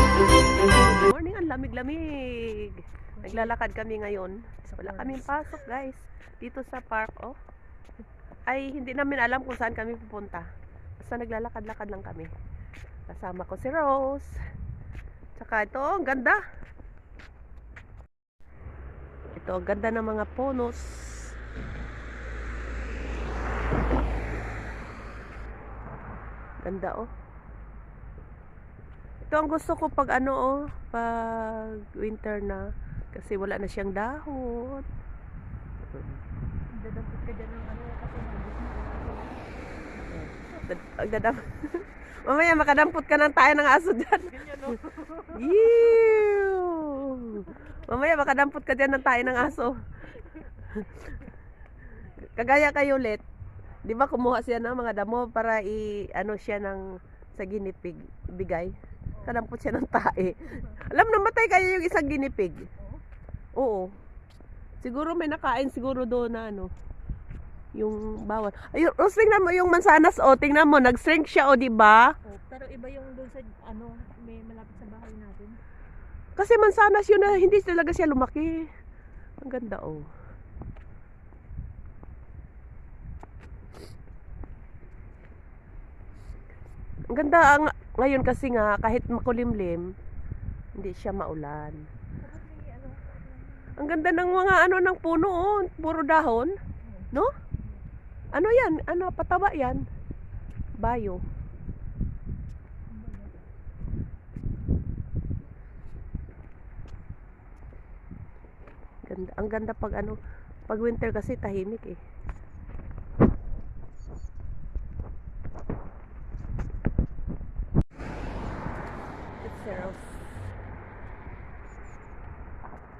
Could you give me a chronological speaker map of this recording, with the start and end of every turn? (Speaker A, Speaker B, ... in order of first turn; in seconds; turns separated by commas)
Speaker A: 0.6-7.4, Speaker B: 3.2-3.5, Speaker B: 4.7-5.2, Speaker A: 8.5-10.5, Speaker A: 11.0-12.3, Speaker A: 13.1-14.4, Speaker A: 15.3-16.4, Speaker A: 19.3-21.3, Speaker A: 26.6-27.1, Speaker A: 29.3-34.9, Speaker A: 35.8-36.2, Speaker B: 36.7-39.5, Speaker A: 40.1-44.7, Speaker B: 44.4-46.1, Speaker A: 45.2-49.8, Speaker A: 50.5-51.0, Speaker A: 52.0-53.2, Speaker A: 53.8-62.7, Speaker B: 62.8-63.0, Speaker A: 63.5-63.9, Speaker A: 64.8-66.7, Speaker A: 67.8-72.1, Speaker B: 72.2-75.6, Speaker A: 76.4-78.7, Speaker A: 79.4-80.1, Speaker A: 87.1-89.9, Speaker A: 90.8-91.8, Speaker B: 92.2-94.5, Speaker A: 93.8-96.5, Speaker B: 96.8-97.1, Speaker A: 98.3-99.8, Speaker A: 100.8-101.2, Speaker B: 102.9-103.4, Speaker A: 109.0-112.0, Speaker A: 119.4-120.2